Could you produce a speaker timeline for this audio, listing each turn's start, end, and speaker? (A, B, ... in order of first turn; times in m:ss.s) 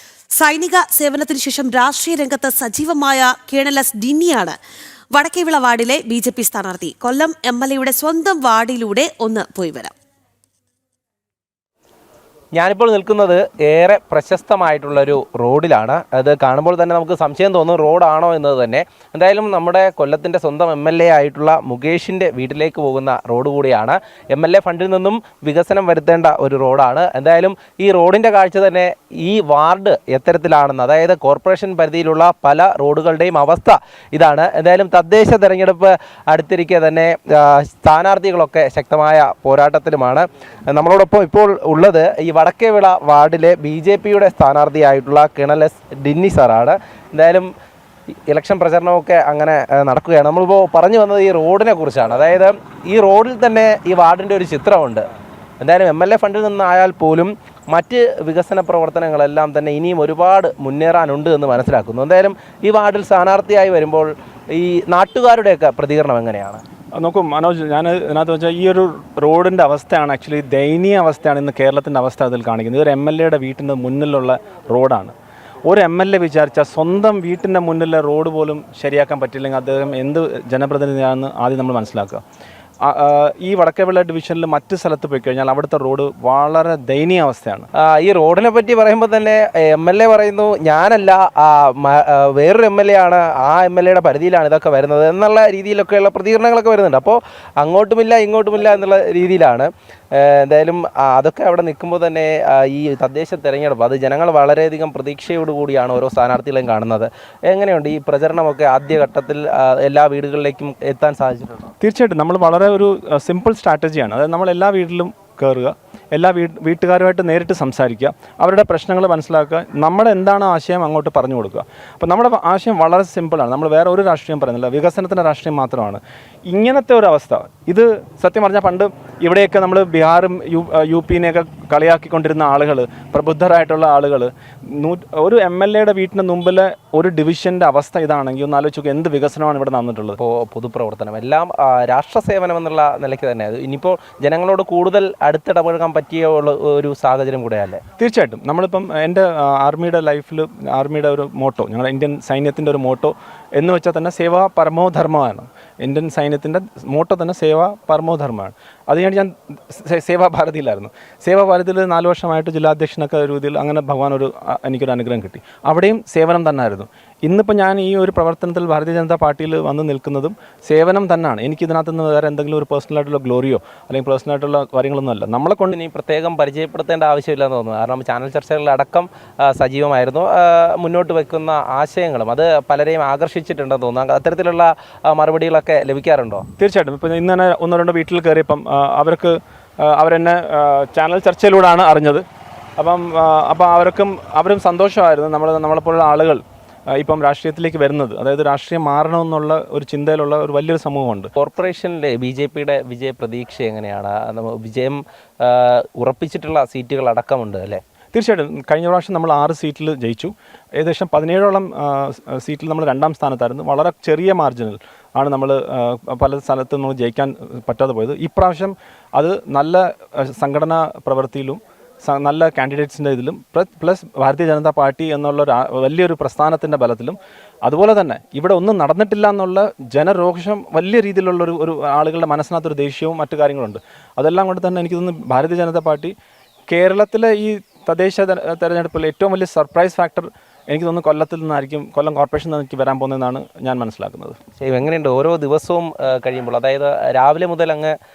0:00.4-0:04.6 A
0:05.1-0:09.9 A
0:12.5-0:47.5 B
0:48.3-0:55.0 B
0:55.6-1:06.6 B
1:06.9-1:15.1 C
1:15.6-1:22.2 C
1:22.8-1:27.7 C
1:27.8-1:51.7 B
1:51.8-2:20.2 C
2:20.2-2:27.8 B
2:28.0-2:55.7 C
2:55.7-3:06.4 B
3:06.6-3:12.2 C
3:12.8-3:21.3 C
3:21.4-3:27.8 B
3:28.1-3:56.1 C
3:56.7-4:04.4 C
4:04.6-4:07.9 B